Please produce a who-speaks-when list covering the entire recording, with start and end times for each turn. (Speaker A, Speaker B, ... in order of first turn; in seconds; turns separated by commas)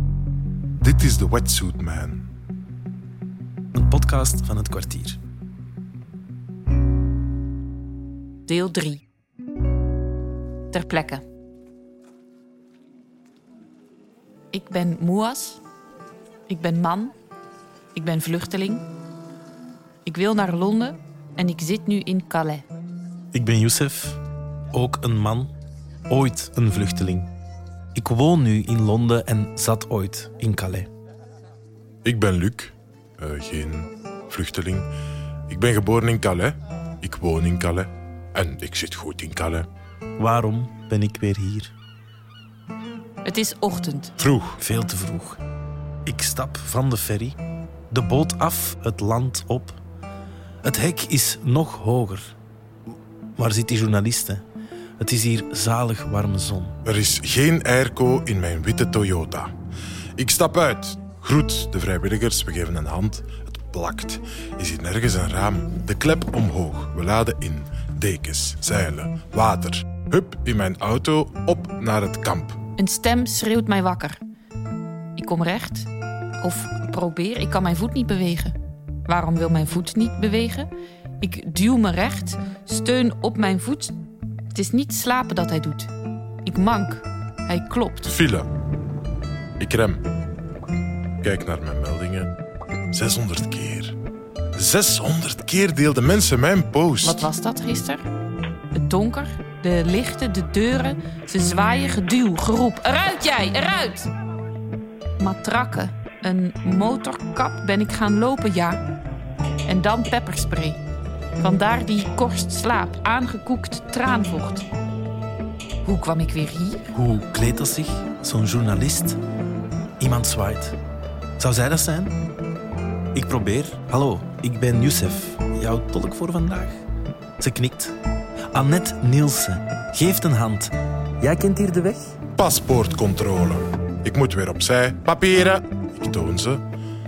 Speaker A: 0.8-2.2, Speaker B: 3.7-5.2, Speaker C: 8.5-9.0, Speaker C: 10.7-11.2, Speaker C: 14.5-15.6, Speaker C: 16.5-17.2, Speaker C: 17.9-18.8, Speaker C: 20.1-22.6, Speaker B: 23.3-24.2, Speaker B: 24.7-25.5, Speaker B: 26.1-27.3, Speaker B: 27.9-30.9, Speaker A: 32.0-34.9, Speaker A: 35.5-39.7, Speaker B: 40.2-41.7, Speaker C: 43.2-44.1, Speaker A: 44.2-44.6, Speaker B: 44.6-45.4, Speaker B: 46.1-47.4, Speaker B: 47.9-49.8, Speaker B: 50.6-52.4, Speaker B: 53.4-54.5, Speaker B: 55.0-56.8, Speaker A: 56.9-59.5, Speaker A: 60.2-72.6, Speaker C: 72.8-74.2, Speaker C: 75.2-84.0, Speaker C: 84.5-85.9, Speaker C: 86.5-88.1, Speaker A: 88.1-88.5, Speaker A: 89.6-90.0, Speaker A: 91.2-92.4, Speaker A: 92.9-94.0, Speaker A: 94.5-97.3, Speaker C: 97.0-98.0, Speaker C: 98.7-104.1, Speaker C: 105.2-108.8, Speaker C: 109.7-110.8, Speaker C: 111.4-114.7, Speaker C: 115.8-116.9, Speaker B: 116.9-119.2, Speaker B: 120.0-120.8, Speaker B: 121.4-122.2, Speaker B: 123.1-126.8, Speaker B: 127.4-128.0, Speaker B: 128.5-132.2, Speaker A: 132.4-136.7